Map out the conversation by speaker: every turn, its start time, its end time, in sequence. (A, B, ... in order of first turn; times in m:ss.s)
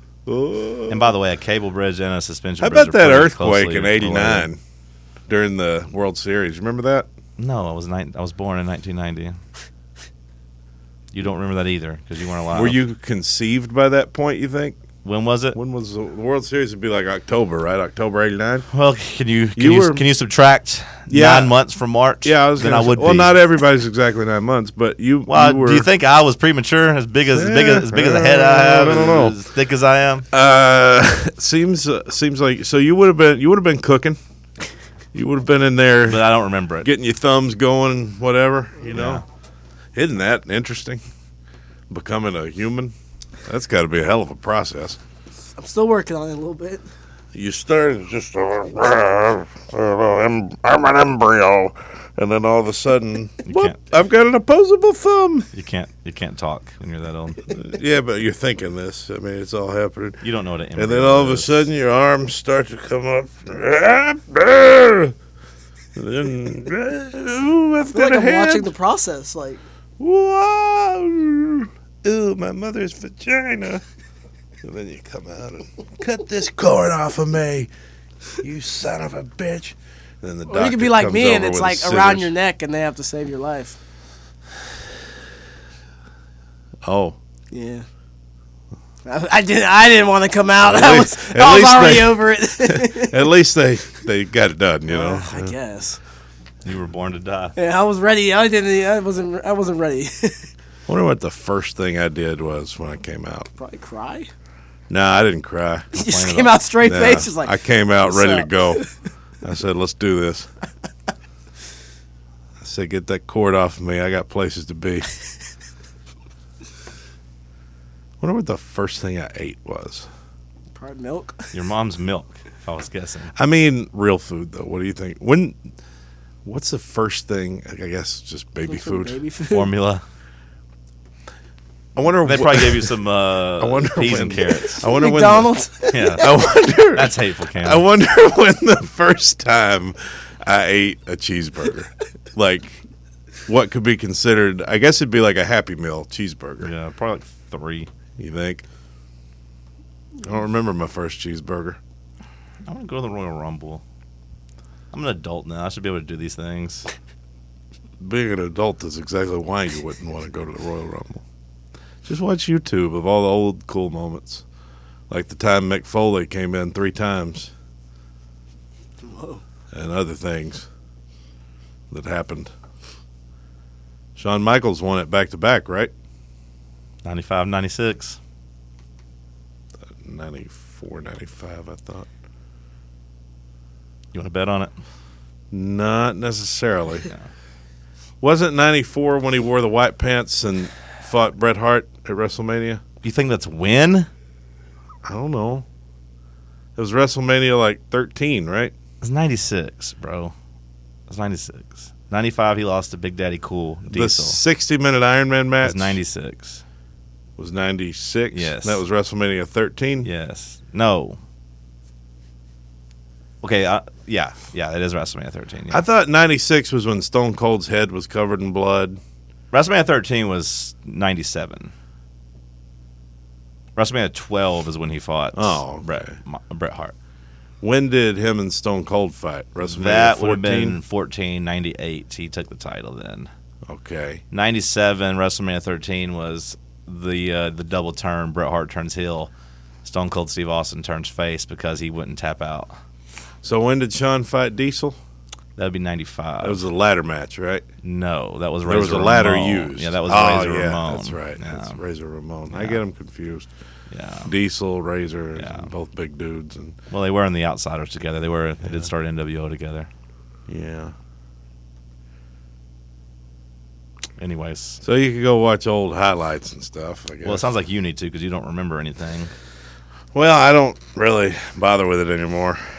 0:00.2-0:01.1 A
0:00.9-0:04.5 B
0:02.6-0:04.6 A
0:05.3-0:07.1 A
0:07.4-0:09.4 B
0:11.1-0:12.8 B
0:12.5-0:14.8 A
0:15.0-0:15.6 B
0:15.5-0:18.6 A
0:18.7-0:23.4 B
0:19.6-0:20.0 A
0:21.1-0:21.5 A
0:22.2-0:25.9 A
0:25.3-0:30.2 B
0:27.3-0:29.3 A
0:30.3-0:34.2 A
0:35.1-0:36.2 A
0:36.1-0:36.9 B
0:36.8-0:39.2 A
0:38.9-0:39.2 B
0:39.9-0:41.0 A
0:41.9-0:42.9 A
0:43.4-0:45.0 A
0:45.6-0:46.8 C
0:47.3-0:55.5 A
0:53.4-0:53.8 B
0:55.5-0:57.5 B
0:57.5-1:00.2 A
1:00.2-1:01.6 B
1:00.8-1:05.1 A
1:05.9-1:08.7 A
1:07.9-1:09.6 C
1:10.0-1:13.8 A
1:14.6-1:17.7 A
1:18.4-1:22.3 A
1:20.5-1:23.8 C
1:26.8-1:27.2 A
1:27.5-1:27.8 C
1:29.0-1:33.2 C
1:30.6-1:35.5 A
1:34.9-1:36.0 C
1:36.6-1:37.5 B
1:37.6-1:40.5 C
1:40.9-1:43.5 A
1:43.6-1:44.3 C
1:44.9-1:45.9 A
1:45.9-1:47.5 C
1:45.9-1:46.6 B
1:46.8-1:48.8 A
1:48.0-1:48.9 C
1:49.4-1:50.5 A
1:52.6-1:55.1 A
1:58.2-2:00.1 A
2:00.7-2:01.5 C
2:01.5-2:03.3 B
2:03.4-2:05.6 A
2:06.4-2:09.2 A
2:08.6-2:09.7 C
2:09.5-2:10.0 B
2:12.0-2:12.9 A
2:12.2-2:14.9 B
2:13.6-2:15.5 A
2:14.8-2:16.4 C
2:15.9-2:16.3 B
2:16.2-2:22.8 A
2:16.9-2:17.8 B
2:23.5-2:26.7 A
2:26.6-2:27.9 B
2:28.2-2:28.6 A
2:30.2-2:31.8 A
2:32.6-2:33.8 B
2:34.9-2:36.9 B
2:38.0-2:41.2 A
2:42.0-2:44.4 A
2:45.1-2:47.5 A
2:49.0-2:49.4 C
2:49.7-2:50.7 A
2:51.9-2:52.5 A
2:54.2-2:55.9 A
2:57.0-2:58.2 B
2:59.9-3:02.1 A
3:04.1-3:04.7 B
3:05.5-3:07.1 A
3:08.2-3:12.8 A
3:13.0-3:14.1 B
3:15.0-3:15.6 A
3:16.8-3:18.7 A
3:19.0-3:20.3 B
3:21.1-3:24.4 B
3:23.9-3:26.0 A
3:25.6-3:26.6 B
3:27.4-3:30.1 A
3:28.3-3:28.8 B
3:30.0-3:31.2 B
3:33.4-3:35.8 B
3:35.7-3:39.0 A
3:39.5-3:41.7 B
3:43.8-3:46.9 B
3:45.3-3:46.1 A
3:47.6-3:50.8 A
3:49.7-3:53.3 B
3:53.7-3:54.2 A
3:54.3-3:59.3 B
3:59.8-4:02.7 B
4:03.4-4:05.0 A
4:05.6-4:06.6 B
4:06.4-4:07.6 A
4:07.8-4:11.8 B
4:08.6-4:13.5 A
4:12.5-4:12.8 B
4:13.9-4:14.3 B
4:14.2-4:16.8 A
4:15.4-4:15.7 B
4:16.9-4:19.9 B
4:20.5-4:20.9 A
4:24.2-4:24.8 B
4:24.8-4:27.4 A
4:27.2-4:29.3 B
4:30.1-4:32.6 A